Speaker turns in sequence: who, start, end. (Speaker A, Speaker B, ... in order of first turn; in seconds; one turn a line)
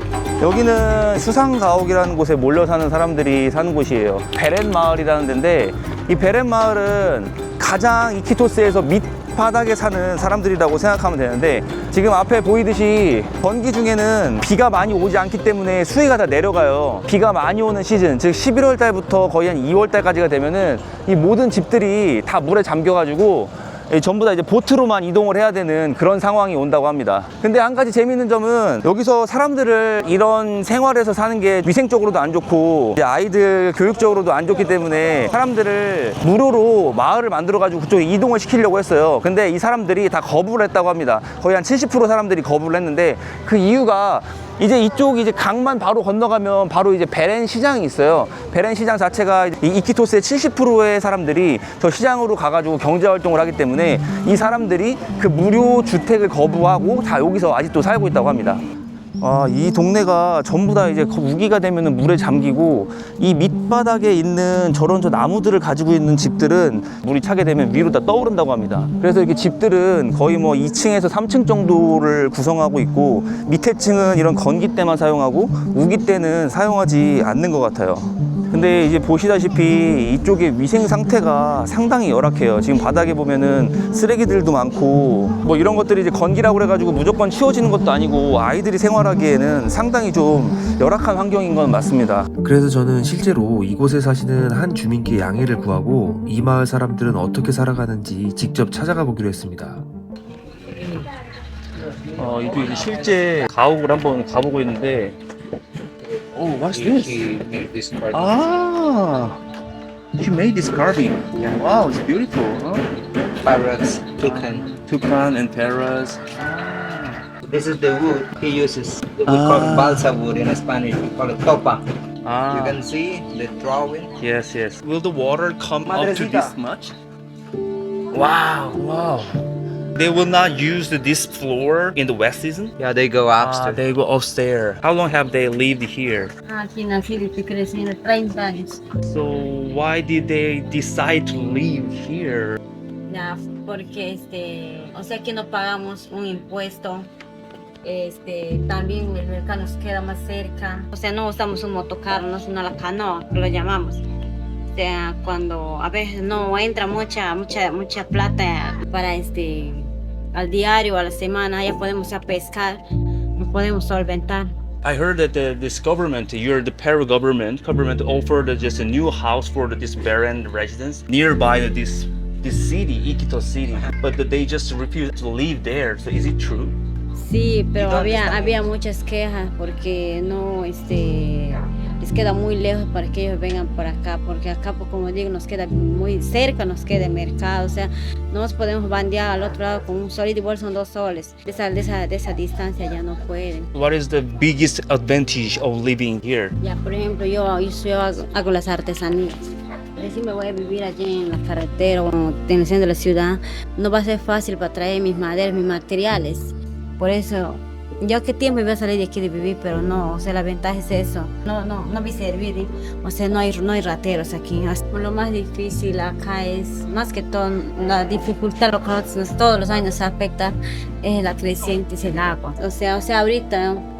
Speaker A: 0.4-58.6
Speaker A: 59.2-92.3
Speaker B: 92.4-99.8
Speaker A: 102.2-105.2
Speaker C: 102.2-103.5
Speaker A: 106.3-107.3
Speaker C: 106.7-108.4
Speaker A: 108.1-109.4
Speaker A: 110.2-112.8
Speaker C: 113.4-114.6
Speaker A: 114.2-117.2
Speaker C: 117.4-121.8
Speaker A: 119.2-120.1
Speaker A: 122.2-122.8
Speaker C: 122.5-124.1
Speaker A: 124.2-126.9
Speaker C: 125.8-126.5
Speaker A: 128.1-129.3
Speaker A: 129.9-132.8
Speaker C: 132.8-133.8
Speaker A: 133.3-136.3
Speaker D: 136.4-138.8
Speaker A: 139.0-142.6
Speaker D: 143.1-147.1
Speaker D: 147.8-154.0
Speaker D: 154.7-162.8
Speaker D: 163.3-164.5
Speaker A: 164.8-176.7
Speaker D: 177.2-193.7
Speaker C: 177.7-178.6
Speaker A: 193.7-196.5
Speaker D: 196.6-199.4
Speaker D: 200.0-223.8